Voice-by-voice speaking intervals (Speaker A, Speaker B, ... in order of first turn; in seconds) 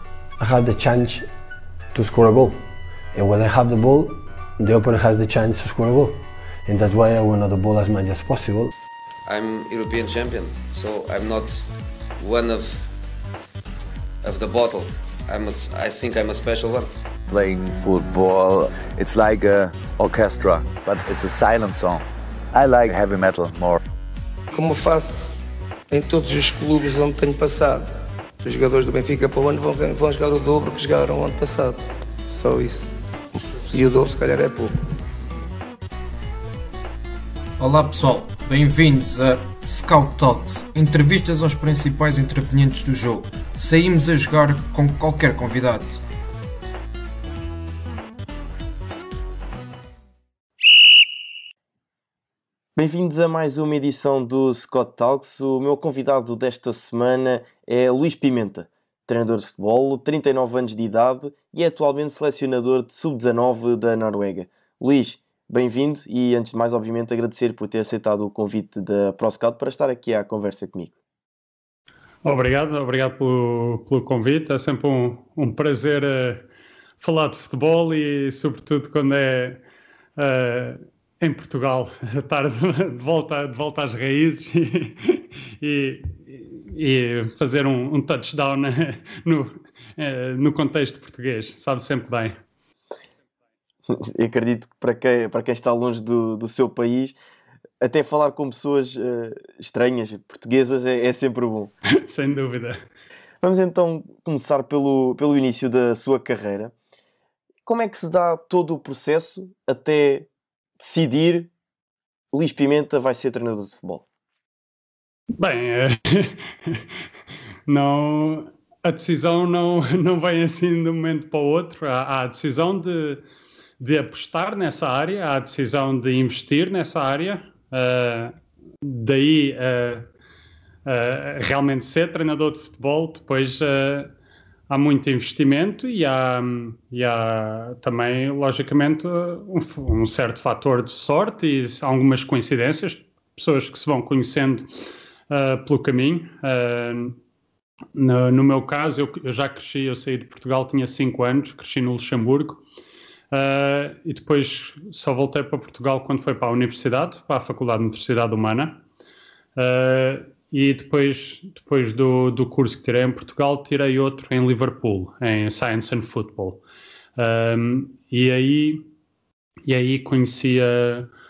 Speaker A: 0.4-1.3, 1.9-2.6, 3.1-8.7
Speaker B: 9.3-12.9, 14.2-16.9
Speaker C: 17.3-23.8
Speaker D: 24.5-25.3, 25.9-27.9, 28.4-32.9, 33.7-34.8
Speaker E: 37.6-46.0
Speaker F: 52.8-71.0, 93.9-97.2, 97.8-101.7, 103.4-106.7, 107.7-110.3, 110.8-111.5, 112.3-114.0
Speaker G: 72.2-76.5, 77.0-79.6, 80.2-92.4, 101.9-102.8, 115.4-116.8, 117.7-123.2, 123.8-130.1, 130.9-134.1, 134.7-144.7, 145.3-147.2, 147.9-152.6, 153.3-158.8, 159.6-166.6, 167.2-168.8, 169.7-171.1